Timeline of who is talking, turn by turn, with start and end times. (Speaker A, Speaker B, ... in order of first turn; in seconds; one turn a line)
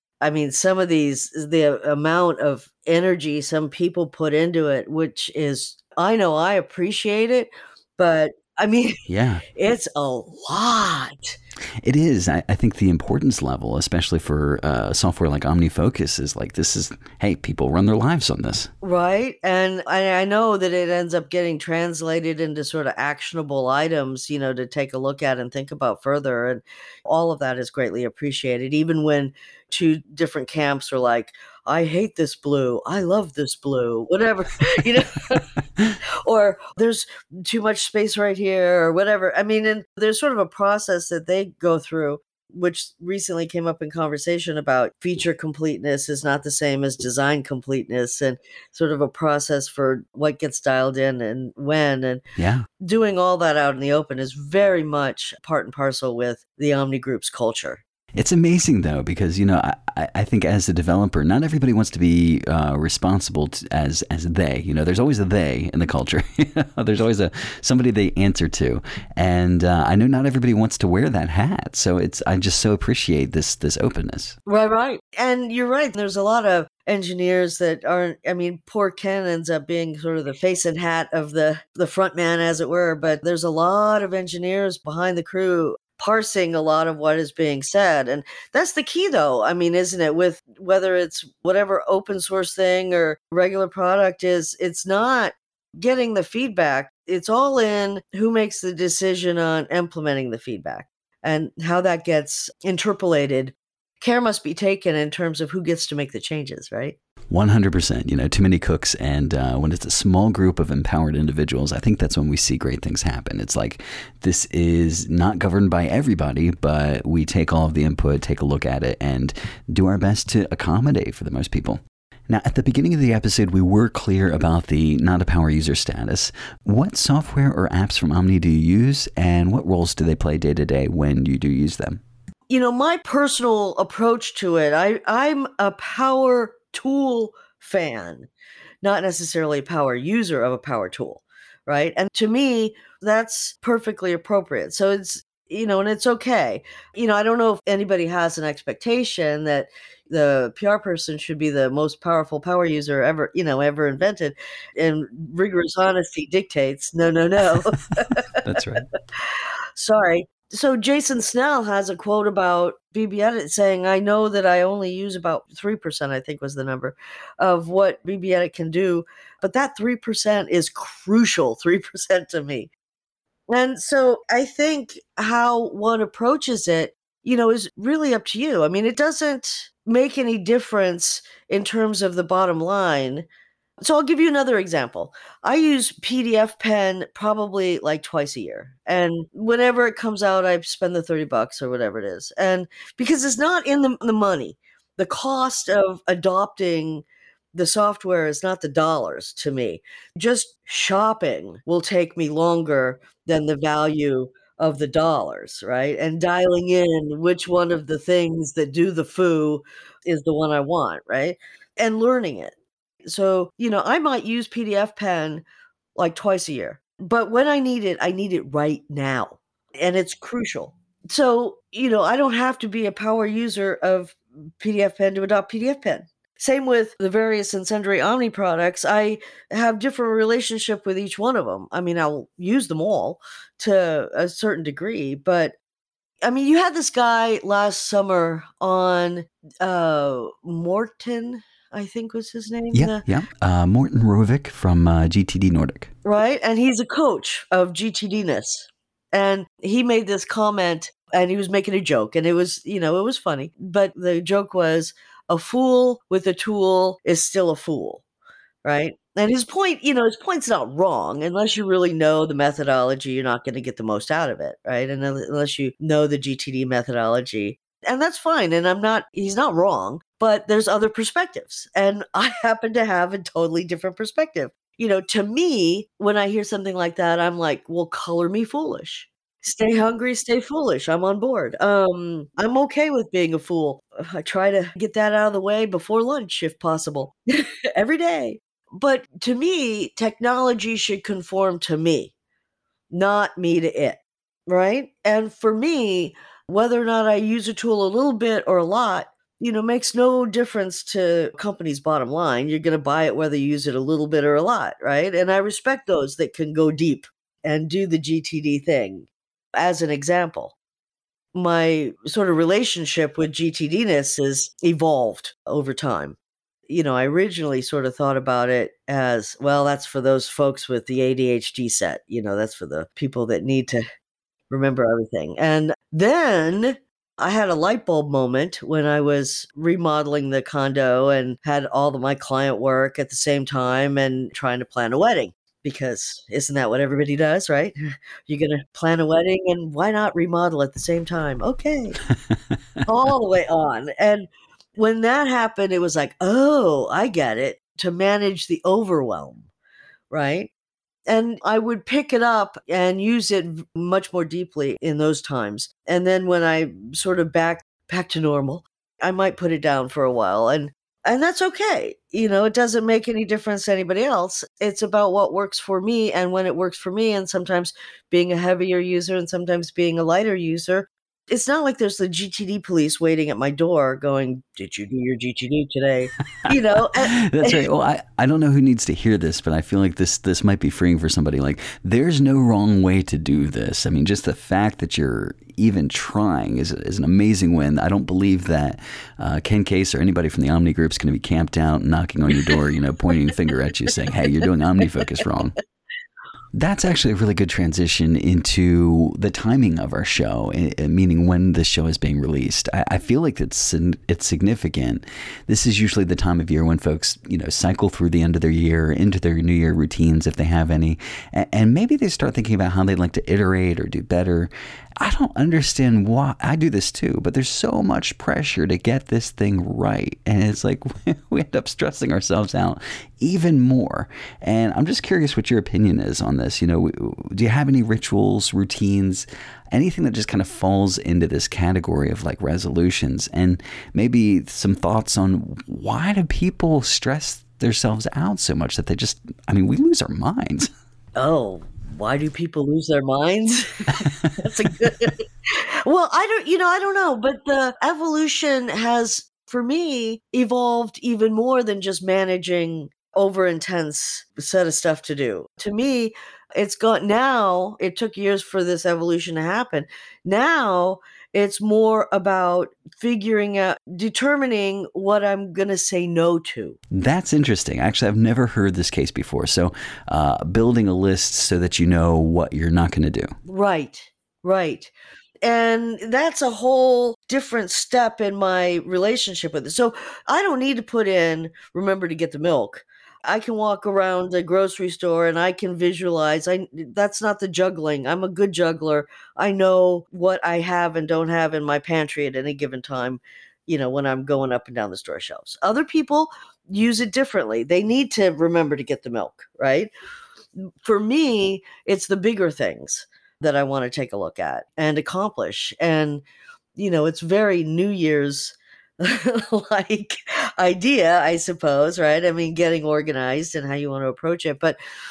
Speaker A: 0.2-9.0
Speaker B: 9.1-9.4
Speaker A: 9.6-11.4
Speaker B: 11.8-18.7
Speaker A: 18.8-35.4
Speaker B: 35.6-36.0
Speaker A: 36.2-52.2
Speaker B: 52.4-52.7
Speaker A: 52.8-57.8
Speaker B: 58.2-74.4
Speaker A: 74.5-107.0
Speaker B: 107.3-132.0
Speaker A: 132.5-138.3
Speaker A: 138.8-158.6
Speaker B: 158.4-158.9
Speaker A: 159.8-172.7
Speaker A: 173.5-183.3
Speaker A: 183.8-212.5
Speaker A: 213.1-215.4
Speaker A: 215.9-235.6
Speaker A: 236.2-243.0
Speaker B: 242.7-245.9
Speaker A: 246.1-258.0
Speaker A: 258.6-292.1
Speaker A: 292.9-310.6
Speaker A: 311.3-316.2
Speaker A: 316.7-323.8
Speaker A: 324.5-342.0
Speaker B: 342.3-342.6
Speaker A: 342.9-349.5
Speaker A: 350.1-350.5
Speaker A: 351.1-377.6
Speaker B: 377.0-395.6
Speaker B: 396.6-440.7
Speaker A: 441.2-445.2
Speaker B: 443.9-444.5
Speaker A: 445.9-466.8
Speaker B: 466.9-473.3
Speaker A: 473.5-474.9
Speaker A: 475.4-499.9
Speaker A: 500.6-506.2
Speaker A: 506.8-514.8